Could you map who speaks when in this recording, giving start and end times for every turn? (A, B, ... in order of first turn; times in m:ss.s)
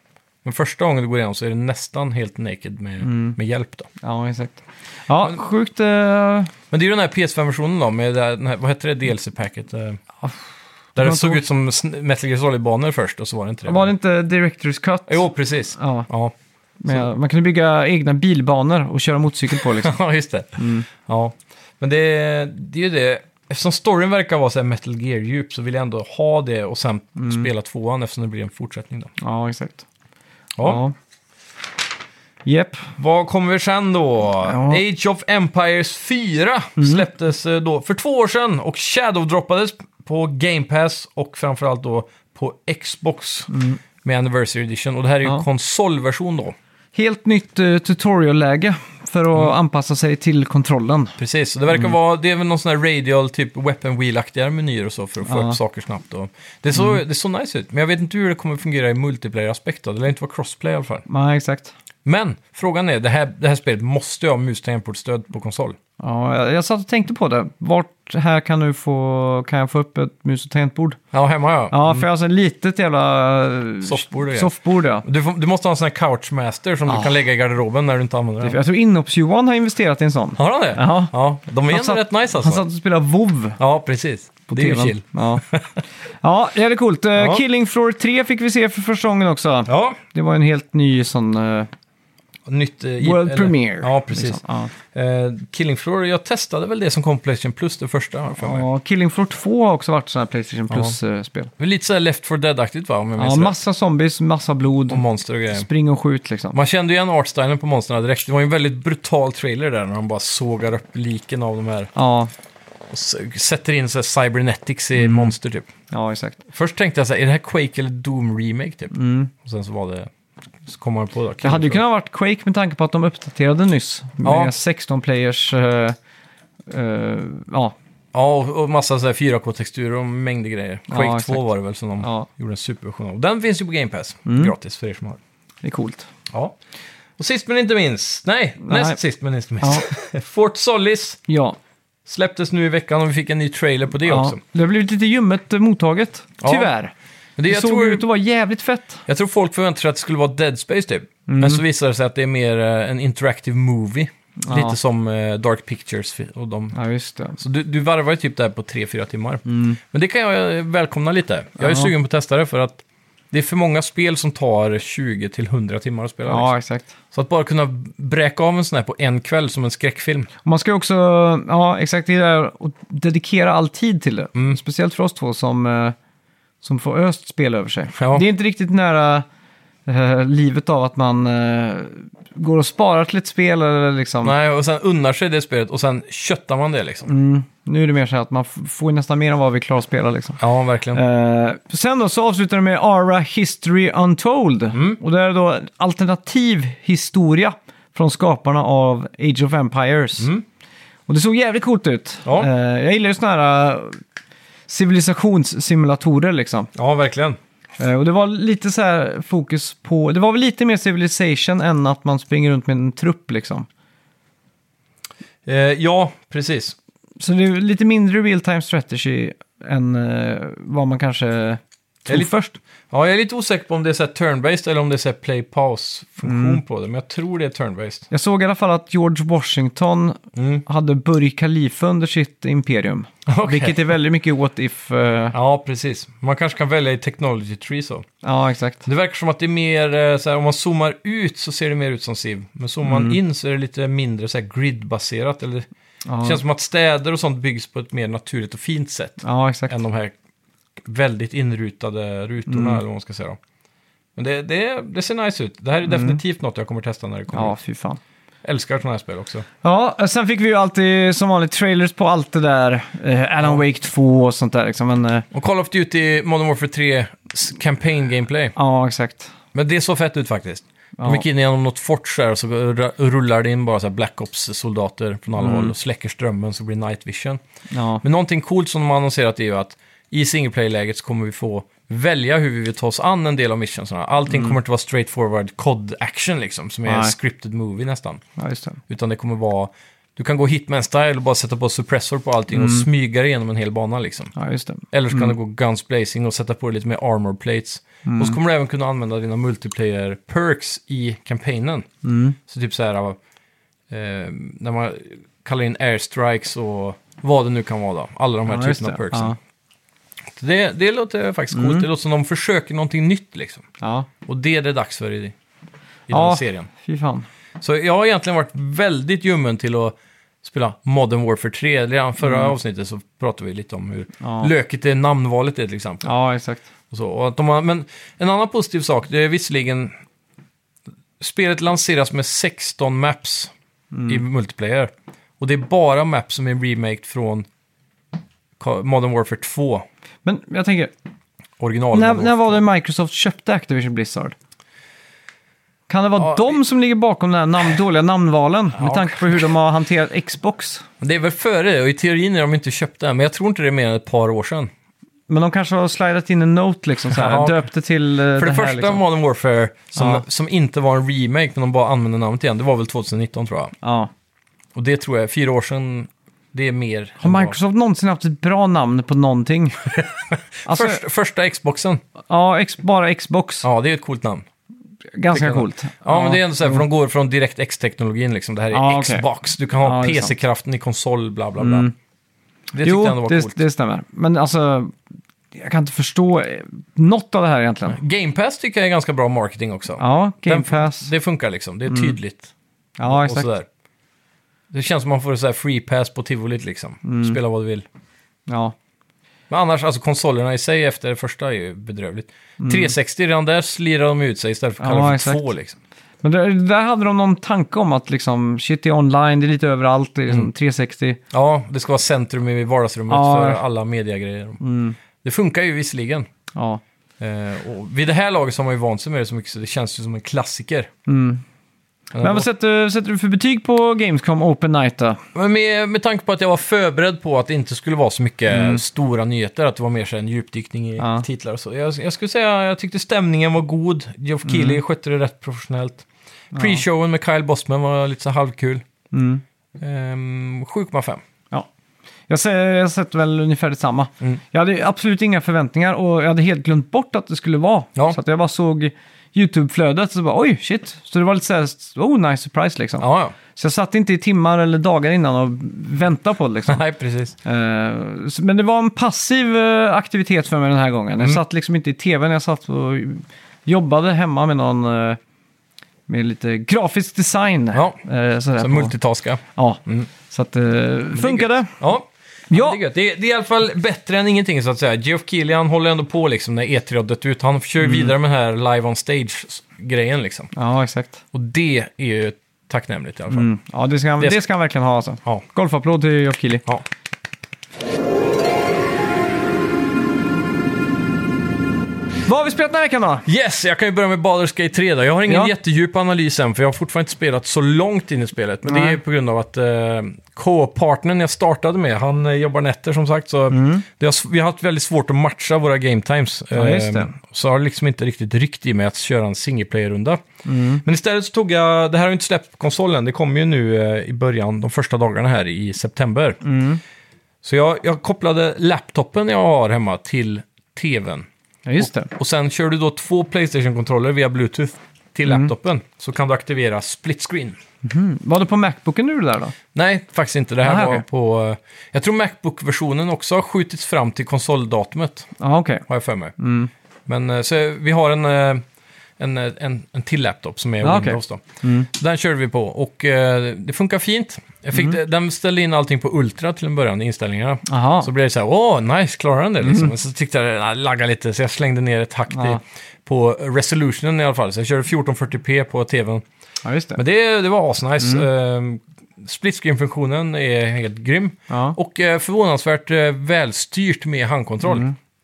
0:00.4-0:03.9 A
0:03.0-0:03.4 B
0:04.0-0:06.5 B
0:06.7-0:10.0 A
0:11.0-0:11.4 B
0:11.0-0:13.9 A
0:13.7-0:16.1 B
0:15.1-0:16.3 A
0:16.8-0:20.0 B
0:19.5-0:29.1 A
0:20.6-0:20.9 B
0:27.2-0:27.5 B
0:29.2-0:29.8 B
0:30.6-0:30.8 A
0:30.6-0:30.9 B
0:32.4-0:32.9 B
0:33.0-0:43.5 A
0:34.4-0:34.8 B
0:36.8-0:37.0 B
0:43.5-0:43.8 B
0:44.0-0:46.6 A
0:46.9-0:51.2 B
0:51.2-1:01.0 A
0:55.2-0:55.6 B
1:01.1-1:01.7 B
1:02.0-1:05.8 A
1:06.0-1:11.0 B
1:11.1-1:12.1 A
1:11.7-1:15.0 B
1:13.8-1:18.6 A
1:16.9-1:17.2 B
1:18.4-1:21.1 B
1:20.4-1:22.6 A
1:21.7-1:23.6 B
1:23.6-1:25.8 A
1:24.5-1:25.4 B
1:26.2-1:31.7 B
1:27.2-1:27.4 A
1:29.7-1:30.0 A
1:32.5-1:38.7 A
1:33.0-1:34.7 B
1:38.4-1:41.5 B
1:41.6-1:43.6 A
1:43.2-1:46.6 B
1:44.9-1:45.7 A
1:46.5-1:51.9 A
1:52.0-1:52.3 B
1:52.9-1:55.7 A
1:55.0-1:55.3 B
1:55.9-1:56.4 B
1:56.5-2:00.1 A
1:58.9-1:59.3 B
2:00.6-2:01.8 A
2:01.4-2:06.0 B
2:04.2-2:04.5 A
2:06.7-2:07.7 B
2:08.1-2:15.2 A
2:10.9-2:11.5 B
2:12.0-2:12.3 B
2:14.3-2:14.5 B
2:15.6-2:16.1 B
2:16.3-2:16.6 A
2:17.2-2:21.2 A
2:18.6-2:19.0 B
2:19.6-2:19.9 B
2:21.3-2:21.6 B
2:22.1-2:24.4 A
2:24.0-2:26.9 B
2:26.4-2:26.7 A
2:27.4-2:28.0 A
2:27.5-2:29.0 B
2:29.1-2:36.8 A
2:31.3-2:31.6 B
2:34.4-2:34.8 B
2:36.7-2:37.4 B
2:37.4-2:46.5 A
2:39.5-2:39.8 B
2:41.6-2:41.9 B
2:46.3-2:46.9 B
2:47.1-2:50.3 A
2:50.4-2:56.0 B
2:56.6-2:59.3 B
2:58.0-2:58.2 A
2:59.9-3:04.3 B
3:04.2-3:07.1 A
3:07.1-3:10.4 B
3:10.4-3:11.0 A
3:10.9-3:20.3 B
3:14.7-3:15.0 A
3:20.2-3:20.4 A
3:21.1-3:24.0 B
3:24.7-3:26.7 B
3:26.8-3:27.4 A
3:27.8-3:33.7 B
3:35.5-3:36.8 A
3:37.2-3:42.6 B
3:42.1-3:42.3 A
3:42.9-3:48.1 A
3:46.2-3:46.6 B
3:48.1-3:55.4 B
3:50.4-3:50.6 A
3:53.3-3:53.9 A
3:55.3-3:58.1 A
3:58.2-3:58.9 B
3:58.9-4:05.7 A
4:02.8-4:03.2 B
4:06.1-4:06.4 B
4:06.2-4:10.1 A
4:09.2-4:09.8 B
4:10.8-4:13.4 A
4:12.5-4:12.8 B
4:14.2-4:17.6 A
4:15.9-4:16.2 B
4:17.3-4:18.0 B
4:18.4-4:19.4 A
4:19.6-4:25.3 B
4:25.3-4:28.6 A
4:28.6-4:29.3 B
4:29.5-4:37.4 A
4:31.0-4:31.2 B
4:35.4-4:35.7 B
4:37.7-4:38.0 B
4:38.0-4:48.2 A
4:44.3-4:44.6 B
4:46.9-4:47.1 B
4:48.4-4:48.8 B
4:48.9-4:54.3 A
4:52.5-4:52.9 B
4:54.4-4:55.3 B
4:54.9-5:01.9 A
4:58.0-4:58.4 B
5:02.0-5:02.4 B
5:02.5-5:03.2 A
5:03.9-5:09.4 A
5:08.5-5:09.4 B
5:10.3-5:13.7 A
5:11.5-5:11.9 B
5:13.8-5:14.1 B
5:14.2-5:15.4 A
5:16.1-5:16.7 A
5:16.1-5:17.3 B
5:17.6-5:26.1 A
5:22.2-5:22.5 B
5:24.2-5:24.5 B
5:26.0-5:26.6 B
5:26.9-5:29.9 A
5:31.2-5:33.5 A
5:33.9-5:34.2 B
5:34.1-5:37.5 A
5:38.6-5:39.9 A
5:40.2-5:40.9 B
5:41.6-5:42.6 A
5:41.9-5:44.4 B
5:45.9-5:50.8 B
5:46.2-5:46.4 A
5:48.8-5:49.4 A
5:51.0-5:54.7 A
5:55.3-5:59.0 B
5:57.1-5:57.6 A
5:58.4-6:03.7 A
6:00.0-6:00.2 B
6:03.8-6:04.1 B
6:04.8-6:07.6 A
6:07.2-6:09.9 B
6:10.0-6:12.0 A
6:10.7-6:11.0 B
6:12.3-6:13.7 B
6:13.6-6:14.4 A
6:15.2-6:16.8 B
6:15.3-6:21.9 A
6:18.7-6:19.3 B
6:19.8-6:20.4 B
6:21.6-6:21.9 B
6:22.7-6:23.6 A
6:22.8-6:24.9 B
6:25.5-6:28.0 B
6:27.9-6:32.5 A
6:30.0-6:31.1 B
6:31.9-6:32.2 B
6:33.0-6:33.5 B
6:33.0-6:33.7 A
6:34.7-6:37.9 A
6:37.0-6:37.4 B
6:38.5-6:38.8 B
6:39.5-6:45.8 A
6:42.6-6:42.9 B
6:44.8-6:45.4 B
6:46.2-6:51.2 B
6:51.3-6:54.6 A
6:53.1-6:53.6 B
6:54.6-6:55.0 B
6:55.2-6:56.3 A
6:56.6-6:56.8 B
6:57.2-7:00.9 A
7:01.1-7:01.4 B
7:02.1-7:02.5 A
7:02.2-7:05.2 B
7:05.4-7:18.8 A
7:08.5-7:08.8 B
7:11.0-7:11.3 B
7:14.5-7:14.8 B
7:16.5-7:16.8 B
7:19.1-7:19.4 B
7:19.8-7:21.2 A
7:22.3-7:36.8 B
7:33.0-7:33.4 A
7:36.7-7:37.4 A
7:37.4-7:45.2 B
7:46.1-7:49.0 B
7:47.7-7:48.0 A
7:48.6-7:50.1 A
7:49.5-7:51.8 B
7:51.1-8:00.5 A
7:52.5-7:52.8 B
7:57.8-7:58.1 B
8:00.5-8:01.2 B
8:01.3-8:03.5 A
8:03.3-8:06.6 B
8:12.3-8:13.3 B
8:13.3-8:30.2 A
8:15.3-8:15.5 B
8:18.6-8:19.0 B
8:23.5-8:23.8 B
8:26.5-8:27.1 B
8:30.4-8:30.8 B
8:30.8-8:36.4 A
8:36.4-8:36.8 B
8:37.4-8:41.3 A
8:41.7-8:42.1 B
8:41.8-8:47.6 A
8:45.3-8:45.5 B
8:47.8-8:49.6 B
8:49.8-8:55.3 A
8:50.6-8:51.0 B
8:55.4-8:55.8 B
8:55.9-8:56.3 A
8:56.4-8:56.7 B
8:57.1-8:58.6 A
8:59.2-9:16.2 A
9:00.8-9:01.9 B
9:07.7-9:08.1 B
9:09.6-9:09.9 B
9:12.3-9:12.6 B
9:16.6-9:17.0 B
9:17.0-9:24.9 A
9:21.5-9:21.8 B
9:24.6-9:25.0 B